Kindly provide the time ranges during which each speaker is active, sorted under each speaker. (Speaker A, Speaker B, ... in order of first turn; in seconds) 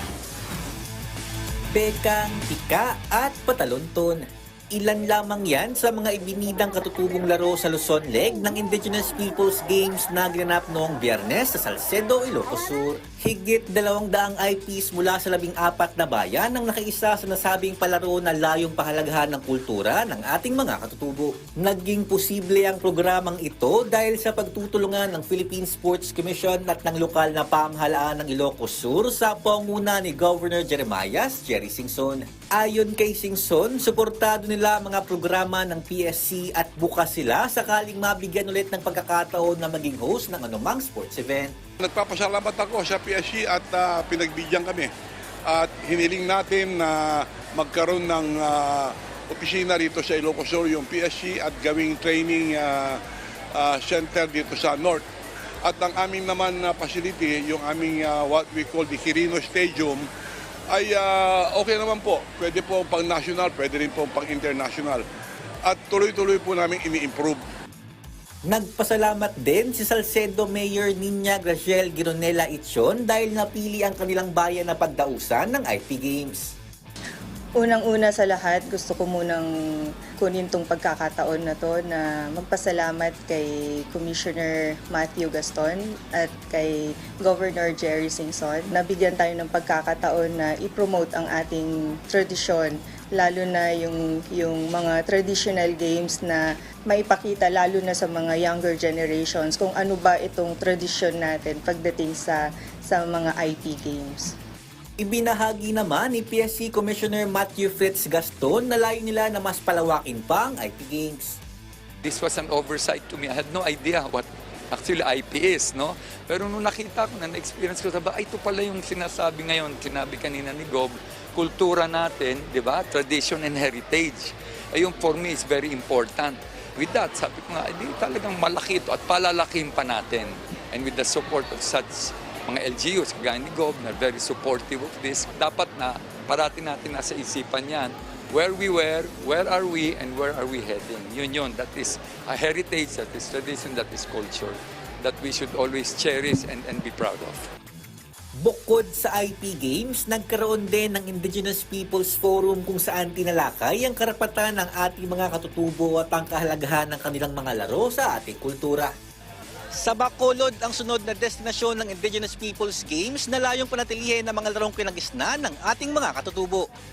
Speaker A: 1.7-41.5, 68.5-76.5, 105.0-111.4, 148.4-158.9, 159.7-166.7
Speaker B: 41.8-44.9, 45.5-53.0, 53.5-55.0, 55.6-60.1, 60.7-65.0, 65.7-67.4
Speaker C: 77.6-79.5, 80.2-104.3
Speaker D: 112.0-147.4